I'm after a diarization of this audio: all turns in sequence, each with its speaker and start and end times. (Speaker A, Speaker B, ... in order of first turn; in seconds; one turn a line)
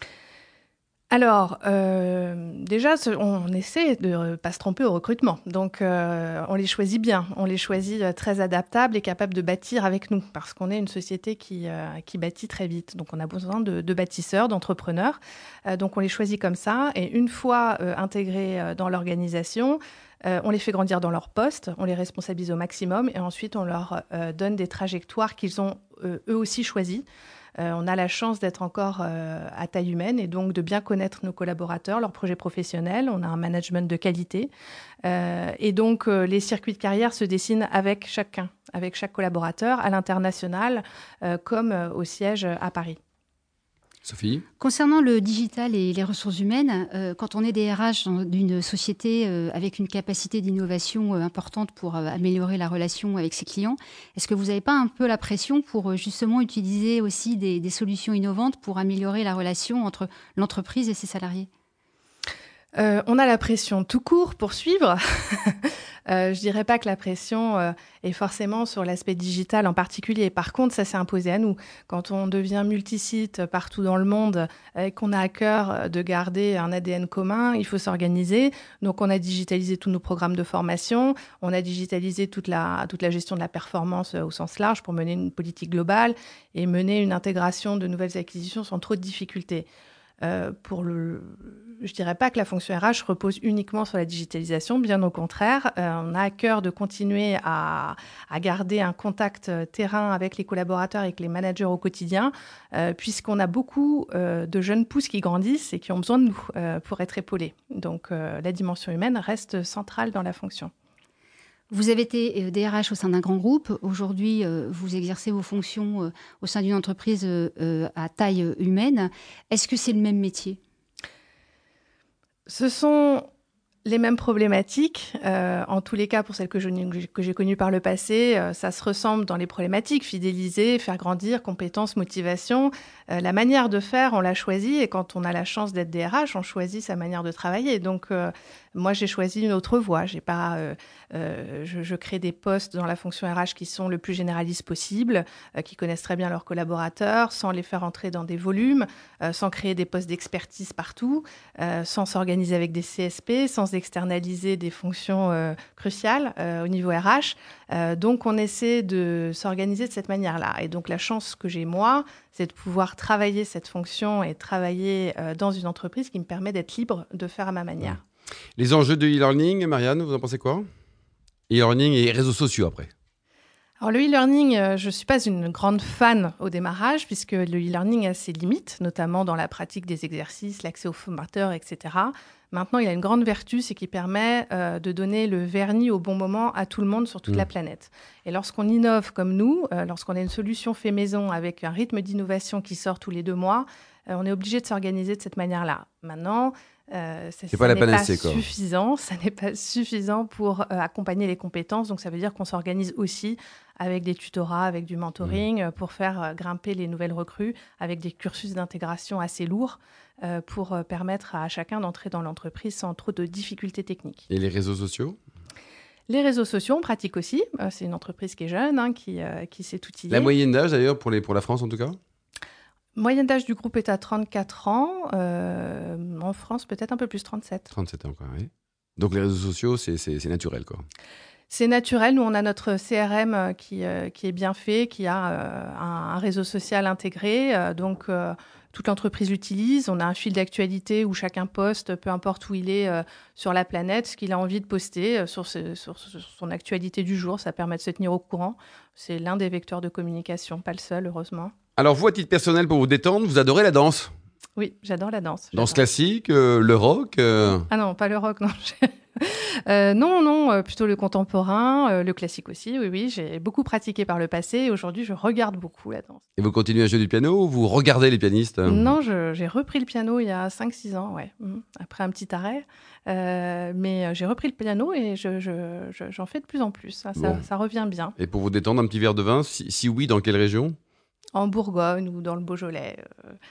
Speaker A: 1.1-27.0
Speaker A: 27.6-34.5
Speaker A: 35.0-43.0
Speaker B: 44.0-44.4
Speaker C: 44.6-61.5
Speaker A: 62.7-89.7
Speaker A: 90.2-110.7
Speaker C: 111.7-120.6
Speaker A: 122.5-123.2
Speaker A: 123.8-168.0
Speaker B: 168.6-170.7
Speaker B: 171.5-172.9
Speaker A: 173.8-214.3
Speaker B: 197.5-198.4
Speaker B: 214.3-215.2
Speaker A: 216.1-220.3
Speaker B: 220.1-222.0
Speaker A: 222.9-227.7
Speaker B: 227.7-230.8
Speaker A: 231.5-251.5
Speaker B: 251.8-254.1
Speaker A: 254.6-255.8
Speaker B: 255.5-257.6
Speaker A: 257.5-266.2
Speaker B: 266.4-269.0
Speaker A: 268.6-278.1
Speaker B: 277.1-277.4
Speaker B: 278.2-280.8
Speaker A: 281.3-283.4